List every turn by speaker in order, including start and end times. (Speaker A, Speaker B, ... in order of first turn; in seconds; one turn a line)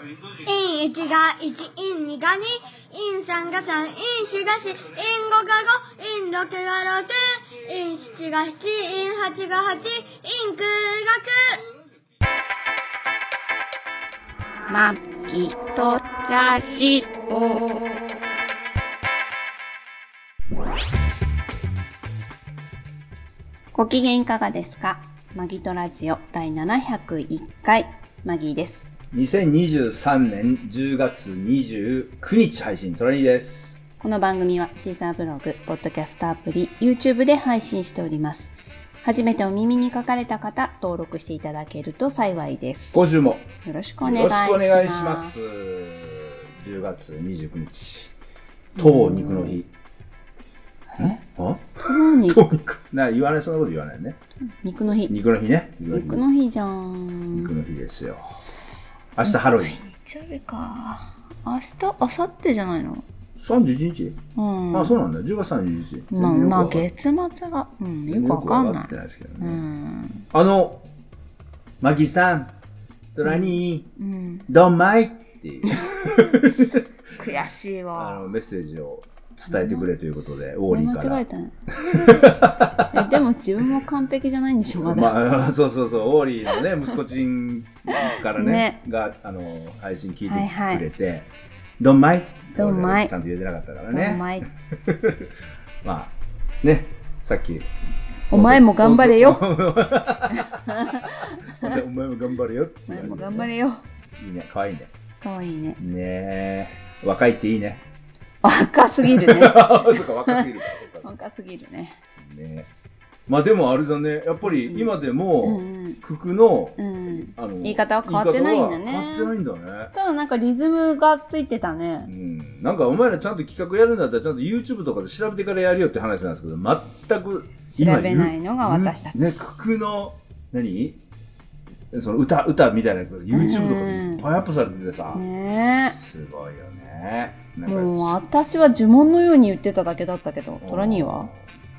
Speaker A: 0.5-11.6
Speaker B: 14.7-17.9
Speaker B: 23.7-28.9
Speaker C: 29.1-33.8
Speaker B: 34.0-43.1
Speaker C: 42.9-43.5
Speaker B: 43.6-45.4
Speaker C: 44.0-48.1
Speaker B: 48.8-49.6
Speaker C: 48.8-49.7
Speaker B: 50.9-51.2
Speaker C: 51.0-54.2
Speaker B: 51.8-52.5
Speaker B: 54.5-55.1
Speaker C: 55.1-56.2
Speaker B: 55.9-57.5
Speaker C: 57.3-58.2
Speaker C: 59.2-59.8
Speaker B: 59.3-63.1
Speaker C: 63.4-64.2
Speaker B: 64.3-65.0
Speaker C: 64.7-66.9
Speaker B: 66.1-70.3
Speaker C: 68.1-69.6
Speaker C: 70.3-70.8
Speaker C: 71.8-72.5
Speaker C: 73.2-73.9
Speaker B: 73.2-74.5
Speaker C: 74.5-76.9
Speaker B: 75.7-76.1
Speaker B: 77.2-78.3
Speaker C: 78.0-81.2
Speaker B: 79.5-79.9
Speaker B: 80.7-82.3
Speaker C: 81.8-83.2
Speaker B: 82.9-85.2
Speaker C: 84.7-91.3
Speaker B: 88.1-88.8
Speaker B: 90.3-90.8
Speaker C: 91.8-95.3
Speaker B: 92.6-93.1
Speaker B: 93.9-94.5
Speaker C: 95.8-97.7
Speaker B: 98.3-99.4
Speaker C: 98.3-103.5
Speaker B: 100.3-101.8
Speaker B: 102.9-103.8
Speaker C: 104.2-104.9
Speaker B: 105.2-105.8
Speaker C: 105.8-107.8
Speaker B: 108.4-112.0
Speaker C: 109.0-111.1
Speaker C: 112.2-112.7
Speaker C: 113.3-119.9
Speaker B: 114.5-116.0
Speaker B: 116.8-119.3
Speaker B: 119.9-122.1
Speaker C: 122.1-131.0
Speaker B: 127.7-129.6
Speaker C: 131.9-135.2
Speaker B: 133.3-134.2
Speaker B: 135.1-136.0
Speaker C: 135.9-138.2
Speaker B: 137.7-141.3
Speaker C: 140.6-141.4